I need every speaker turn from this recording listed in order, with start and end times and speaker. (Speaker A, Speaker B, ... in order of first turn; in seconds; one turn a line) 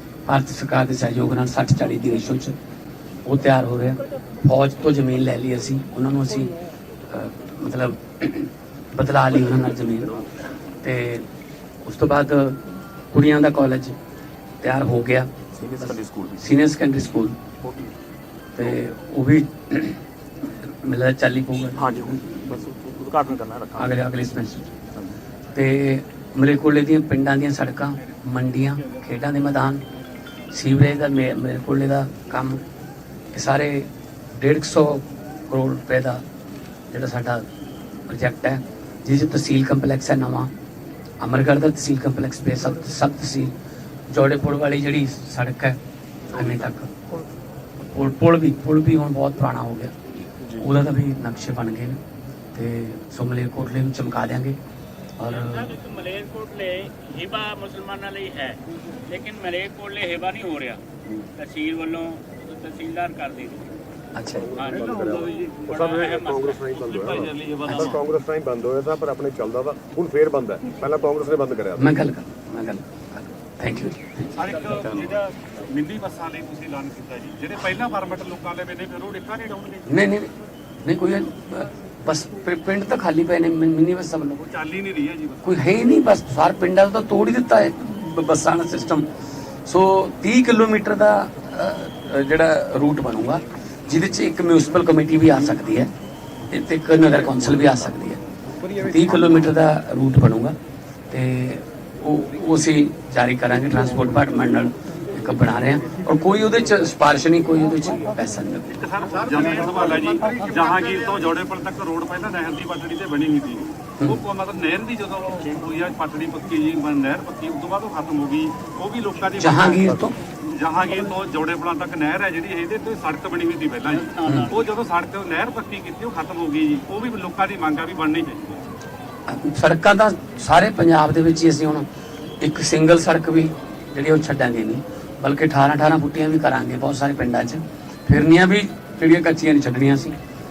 Speaker A: 0.2-2.5
Speaker A: 3.2-6.5
Speaker A: 7.1-10.2
Speaker A: 10.8-11.3
Speaker A: 11.8-14.0
Speaker A: 14.6-17.4
Speaker B: 15.5-16.4
Speaker B: 17.6-17.9
Speaker A: 18.5-21.9
Speaker B: 21.7-24.0
Speaker A: 23.8-24.7
Speaker A: 25.5-29.8
Speaker A: 30.5-32.6
Speaker A: 33.3-36.2
Speaker A: 36.9-37.5
Speaker A: 38.1-40.5
Speaker A: 41.2-43.5
Speaker A: 44.1-45.8
Speaker B: 46.3-46.7
Speaker A: 46.3-46.9
Speaker A: 47.9-49.9
Speaker A: 50.6-52.0
Speaker A: 52.5-54.6
Speaker A: 55.2-55.7
Speaker C: 55.2-60.8
Speaker C: 61.4-63.7
Speaker A: 64.1-64.5
Speaker D: 64.3-71.9
Speaker C: 64.5-66.9
Speaker E: 64.8-65.6
Speaker E: 66.9-67.7
Speaker B: 67.2-67.7
Speaker A: 67.6-68.0
Speaker A: 71.8-74.3
Speaker E: 74.3-80.0
Speaker A: 79.9-80.3
Speaker A: 80.8-84.4
Speaker E: 84.4-85.6
Speaker A: 85.4-89.0
Speaker A: 89.7-95.9
Speaker A: 96.5-98.2
Speaker A: 98.7-100.5
Speaker A: 101.1-108.7
Speaker E: 108.7-128.7
Speaker A: 119.3-120.2
Speaker C: 124.0-124.5
Speaker A: 124.2-124.5
Speaker A: 129.3-131.8
Speaker A: 132.4-140.2